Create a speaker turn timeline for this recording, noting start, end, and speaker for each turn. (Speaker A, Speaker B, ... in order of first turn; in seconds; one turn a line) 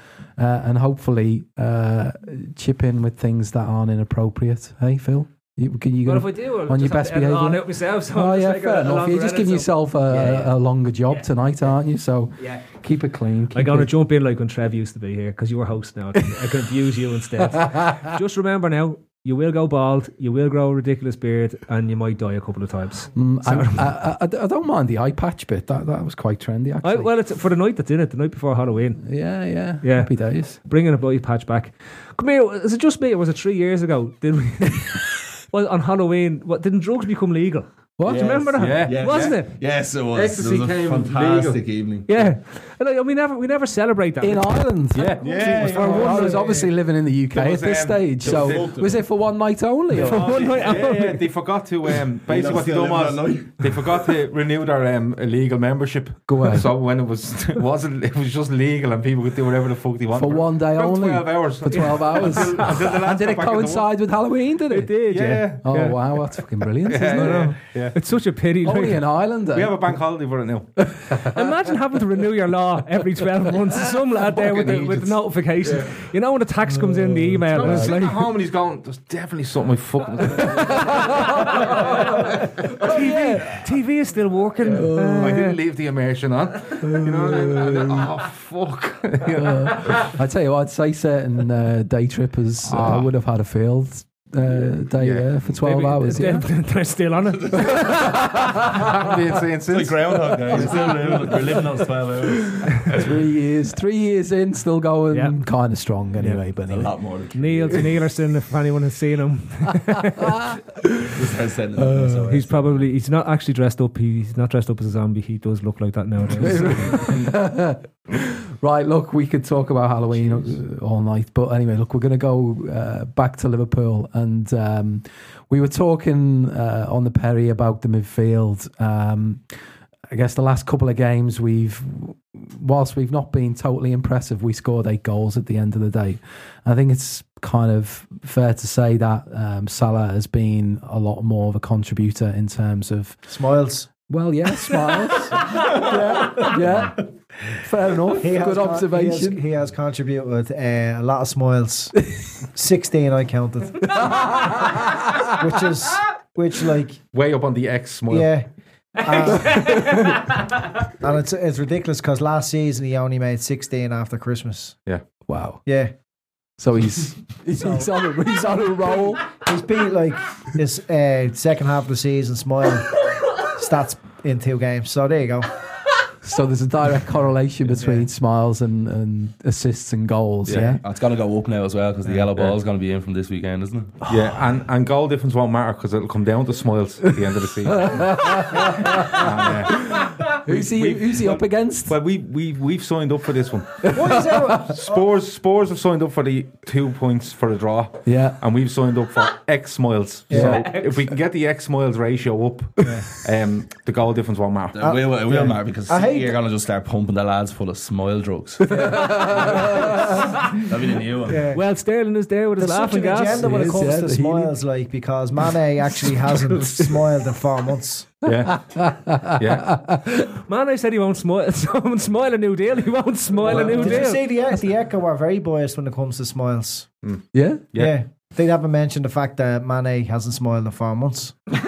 Speaker A: 0.4-13.9
Speaker B: 6.0-10.4
Speaker B: 13.5-23.9
Speaker A: 17.7-18.0
Speaker A: 23.1-27.1
Speaker B: 26.8-29.0
Speaker A: 29.0-30.6
Speaker B: 29.8-39.5
Speaker A: 38.0-38.3
Speaker C: 38.1-42.3
Speaker D: 38.6-39.4
Speaker D: 40.1-41.6
Speaker B: 42.1-44.6
Speaker A: 44.2-50.2
Speaker D: 44.9-46.0
Speaker C: 45.2-46.5
Speaker E: 45.2-46.7
Speaker C: 47.3-49.1
Speaker D: 48.2-48.6
Speaker C: 50.0-50.9
Speaker B: 50.0-51.2
Speaker D: 50.1-63.9
Speaker C: 52.2-54.0
Speaker A: 56.3-56.7
Speaker A: 60.1-65.1
Speaker B: 61.7-62.4
Speaker B: 64.7-66.0
Speaker D: 65.1-65.7
Speaker A: 65.6-67.5
Speaker D: 66.9-68.0
Speaker B: 67.0-69.0
Speaker A: 68.6-70.0
Speaker D: 69.5-70.7
Speaker B: 71.3-78.2
Speaker C: 74.3-75.1
Speaker D: 75.7-75.9
Speaker A: 76.7-77.9
Speaker D: 77.5-83.0
Speaker A: 80.4-81.7
Speaker B: 81.5-85.4
Speaker A: 82.8-83.5
Speaker A: 84.7-85.5
Speaker D: 85.1-90.1
Speaker A: 86.8-88.1
Speaker A: 89.3-96.5
Speaker D: 92.7-93.1
Speaker D: 95.0-95.3
Speaker B: 95.6-98.6
Speaker C: 97.5-97.9
Speaker A: 98.0-98.8
Speaker D: 98.7-100.7
Speaker C: 99.7-103.0
Speaker A: 100.6-101.6
Speaker A: 102.5-106.9
Speaker C: 106.7-108.0
Speaker B: 107.3-110.5
Speaker C: 111.2-112.9
Speaker A: 111.8-112.3
Speaker B: 112.3-117.1
Speaker A: 116.4-129.5
Speaker C: 116.5-117.1
Speaker A: 130.1-143.3
Speaker E: 143.3-143.9
Speaker A: 144.1-147.1
Speaker E: 145.4-146.6
Speaker A: 147.6-149.4
Speaker E: 148.2-157.0
Speaker A: 154.2-154.8
Speaker D: 157.1-158.3
Speaker E: 158.1-158.5
Speaker B: 159.0-160.6
Speaker E: 159.0-159.9
Speaker A: 159.6-160.2
Speaker E: 161.0-164.8
Speaker A: 165.3-165.6
Speaker E: 165.7-165.9
Speaker A: 166.6-169.3
Speaker E: 167.6-167.9
Speaker E: 169.4-175.6
Speaker A: 176.2-180.8
Speaker E: 177.7-178.1
Speaker C: 180.5-184.1
Speaker D: 184.1-193.9
Speaker A: 187.7-191.9
Speaker A: 193.8-194.7
Speaker E: 193.9-195.0
Speaker D: 194.6-204.8
Speaker A: 198.1-198.4
Speaker E: 200.3-200.6
Speaker A: 200.3-200.6
Speaker B: 200.4-200.9
Speaker C: 204.7-211.5
Speaker E: 204.8-206.3
Speaker A: 208.7-210.2
Speaker E: 211.3-211.6
Speaker B: 211.5-213.5
Speaker E: 212.6-218.2
Speaker A: 213.4-214.5
Speaker D: 216.5-217.0
Speaker D: 218.2-219.8
Speaker A: 218.3-220.3
Speaker B: 220.4-224.2
Speaker E: 223.4-226.9
Speaker D: 223.5-223.9
Speaker A: 223.6-224.6
Speaker D: 227.0-228.0
Speaker A: 227.3-227.7
Speaker E: 227.8-231.4